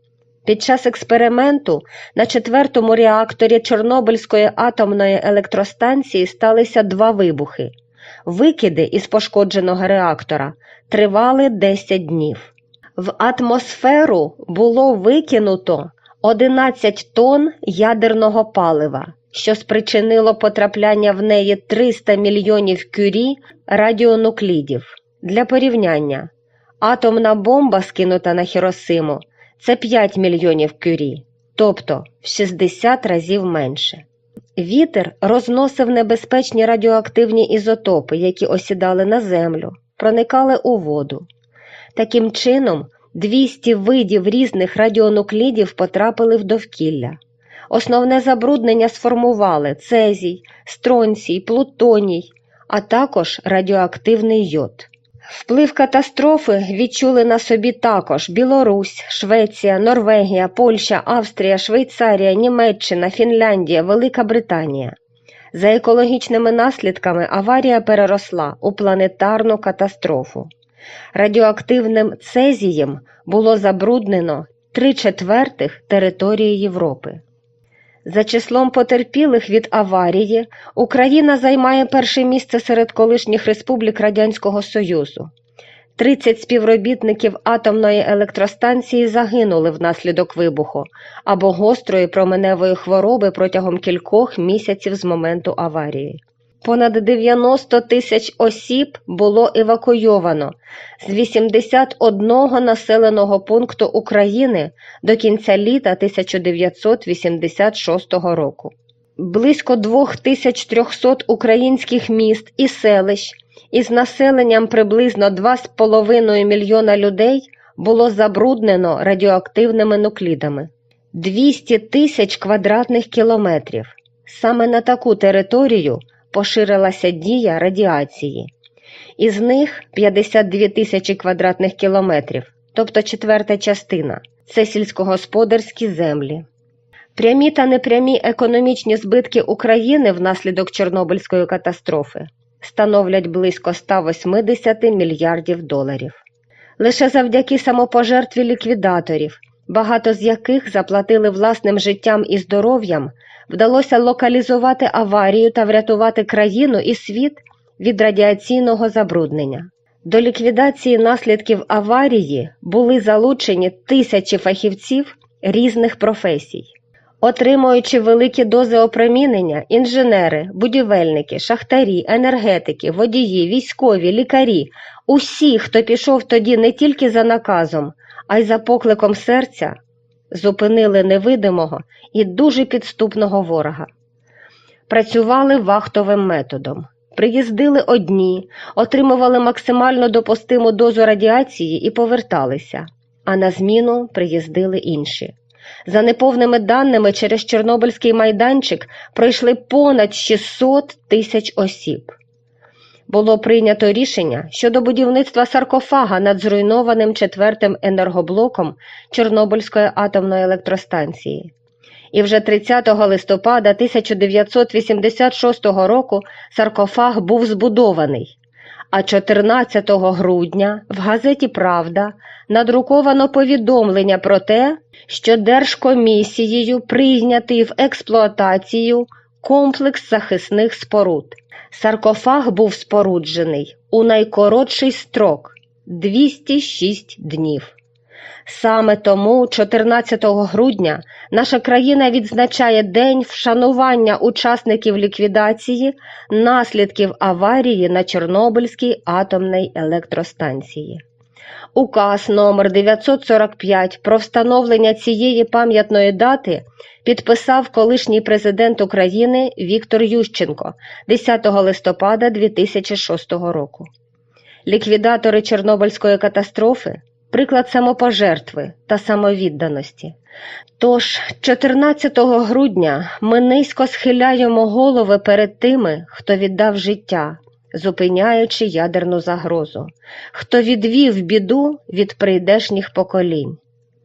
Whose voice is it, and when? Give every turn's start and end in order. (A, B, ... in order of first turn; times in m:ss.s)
0:00.4-0:07.7 A
0:08.2-0:26.3 A
0:26.8-0:34.0 A
0:34.6-0:41.2 A
0:41.9-0:47.2 A
0:47.7-1:04.9 A
1:05.5-1:10.5 A
1:11.1-1:17.2 A
1:18.0-1:25.3 A
1:26.0-2:08.5 A
2:09.2-2:16.4 A
2:17.1-2:26.2 A
2:26.8-2:46.7 A
2:47.2-2:59.8 A
3:00.3-3:03.9 A
3:04.9-3:15.3 A
3:15.8-3:22.2 A
3:23.1-3:31.5 A
3:32.1-3:38.3 A
3:38.9-3:57.7 A
3:58.4-4:11.0 A
4:11.7-4:23.9 A
4:24.6-4:30.2 A
4:30.8-4:43.6 A